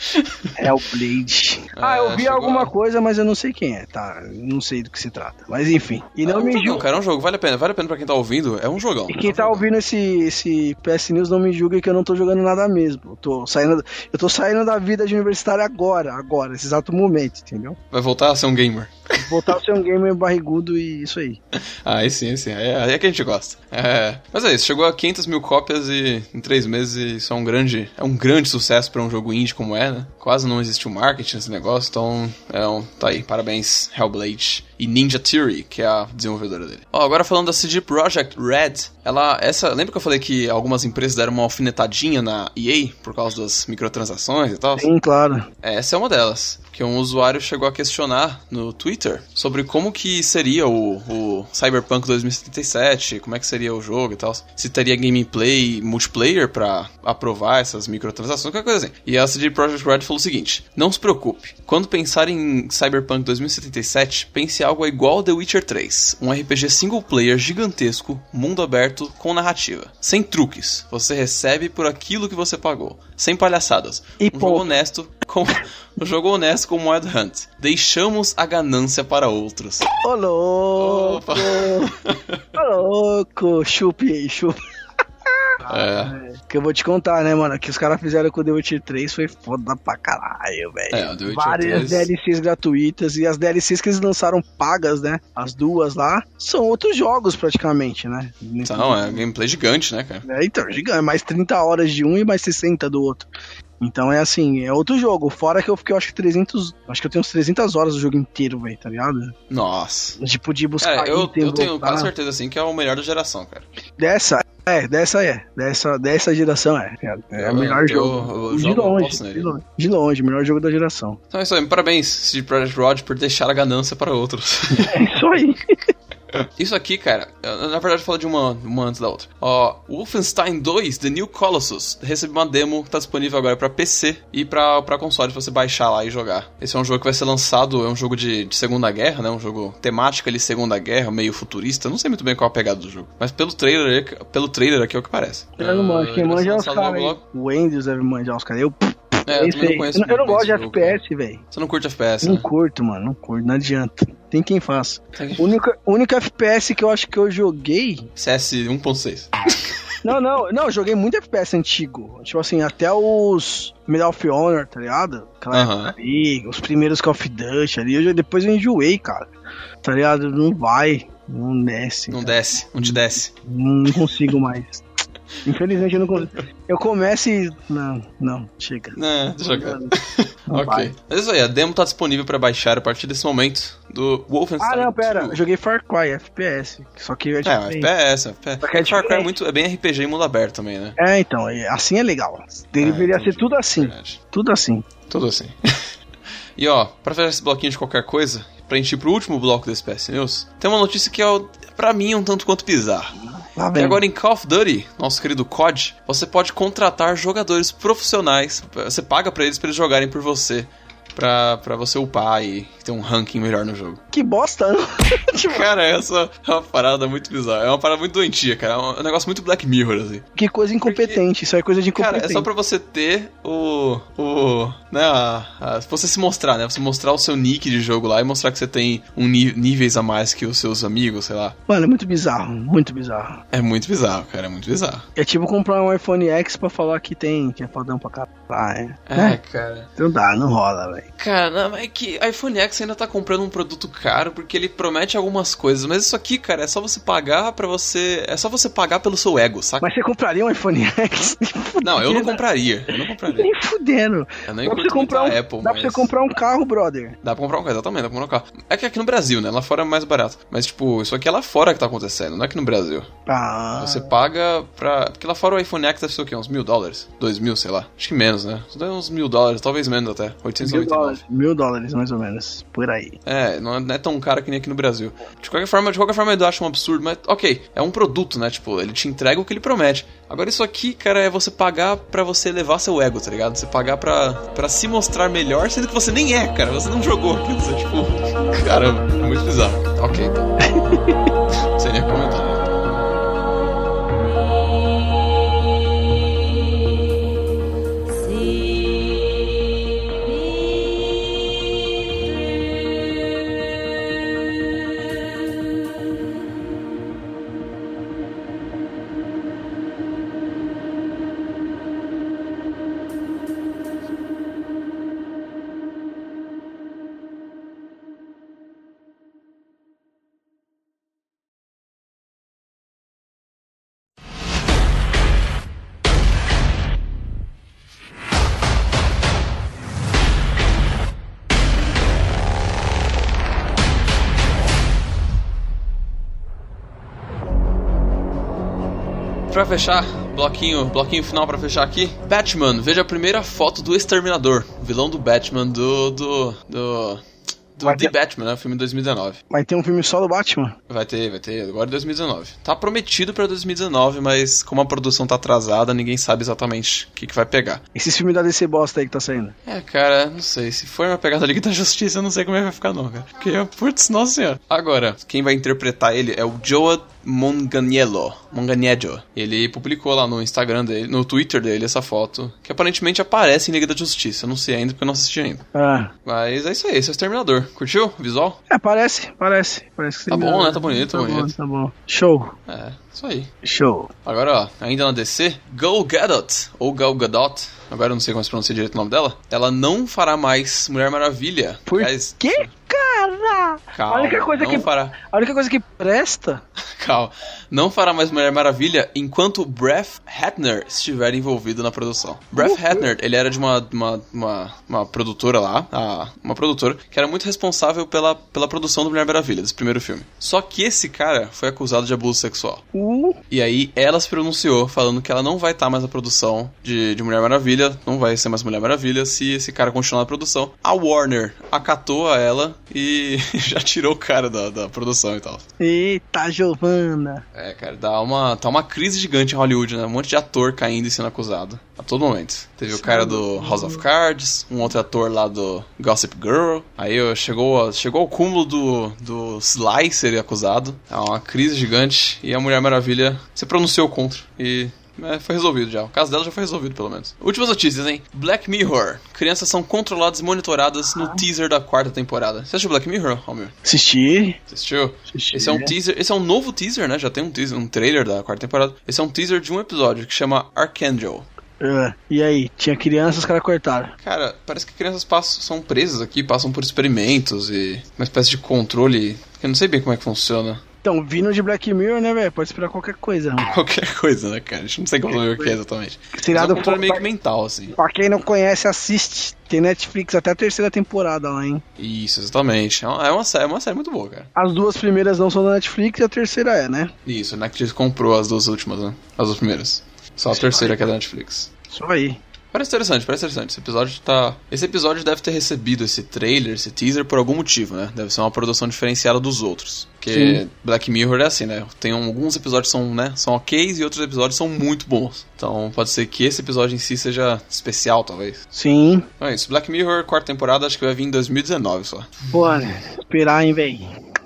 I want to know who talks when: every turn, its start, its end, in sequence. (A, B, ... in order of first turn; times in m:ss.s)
0:00.1-0:00.5 A
0:00.6-0:06.9 B
0:01.7-0:02.7 A
0:06.2-0:09.7 A
0:09.1-0:17.8 B
0:17.9-0:19.6 A
0:19.2-0:21.4 B
0:21.5-0:44.9 A
0:44.8-0:45.5 B
0:45.6-1:19.9 A
1:14.2-1:14.8 B
1:20.0-1:22.0 B
1:20.8-1:22.4 A
1:22.5-1:24.6 B
1:25.4-1:39.2 B
1:25.7-1:26.1 A
1:30.9-1:32.1 A
1:38.6-1:40.2 A
1:40.2-1:43.3 B
1:43.8-1:49.4 B
1:49.5-1:50.2 A
1:50.2-1:52.1 B
1:50.8-1:53.7 A
1:54.0-2:01.2 B
1:57.4-1:59.5 A
2:01.3-2:05.1 A
2:04.7-2:05.8 B
2:06.3-2:27.2 A
2:25.6-2:31.4 B
2:29.3-2:31.0 A
2:31.5-2:32.5 A
2:32.2-2:38.1 B
2:35.2-2:35.6 A
2:38.2-2:39.8 A
2:40.0-2:49.3 B
2:45.5-2:45.9 A
2:49.8-2:54.8 B
2:52.1-2:53.3 A
2:55.4-3:00.0 B
2:59.0-3:05.4 A
3:00.5-3:00.9 B
3:04.6-3:07.9 B
3:07.4-3:11.0 A
3:08.6-3:09.3 B
3:11.0-3:14.9 B
3:12.8-3:14.2 A
3:15.1-3:15.9 A
3:16.6-3:23.1 A
3:23.6-3:24.0 B
3:23.7-3:34.0 A
3:34.1-3:35.7 B
3:35.5-3:40.2 A
3:40.4-3:42.5 B
3:40.8-3:41.2 A
3:41.9-3:51.6 A
3:51.7-3:53.4 B
3:53.5-3:55.1 A
3:55.2-3:59.4 B
3:59.1-3:59.9 A
4:00.0-4:01.1 B
4:01.2-4:09.8 A
4:09.8-4:12.4 B
4:11.8-4:13.5 A
4:13.2-4:17.2 B
4:14.5-4:16.1 A
4:17.2-4:23.1 A
4:23.3-4:24.1 B
4:23.8-4:31.2 A
4:30.6-4:33.2 B
4:33.2-4:50.5 A
4:50.6-4:51.2 B
4:51.8-4:52.7 A
5:39.5-5:47.2 A
5:47.8-5:49.4 A
5:47.8-5:48.1 B
5:49.5-5:50.8 B
5:50.9-5:57.8 A
5:58.0-5:59.6 B
5:59.7-6:15.6 A
6:15.7-6:16.1 B
6:16.2-6:18.6 A
6:18.7-6:22.6 B
6:20.3-6:21.5 A
6:22.7-6:23.5 A
6:23.6-6:24.1 B
6:24.2-6:32.7 A
6:31.9-6:36.6 B
6:33.9-6:35.2 A
6:36.8-6:52.8 A
6:42.6-6:43.1 B
6:52.9-6:53.4 B
6:53.5-7:05.6 A
7:05.8-7:07.4 B
7:07.6-7:33.7 A
7:12.9-7:14.0 B
7:33.8-7:34.6 B
7:34.7-7:41.5 A
7:35.3-7:35.9 B
7:41.8-7:44.1 B
7:44.2-7:50.8 A
7:51.0-7:53.7 B
7:53.7-7:58.0 A
7:55.4-7:55.8 B
7:56.3-7:57.2 B
7:58.0-8:01.8 B
8:02.0-8:04.5 A
8:04.6-8:07.1 B
8:07.2-8:11.7 A
8:10.5-8:11.0 B
8:11.9-8:12.4 B
8:12.7-8:28.6 A
8:20.3-8:20.6 B
8:28.7-8:29.3 B
8:29.4-8:32.4 A
8:32.5-8:34.1 B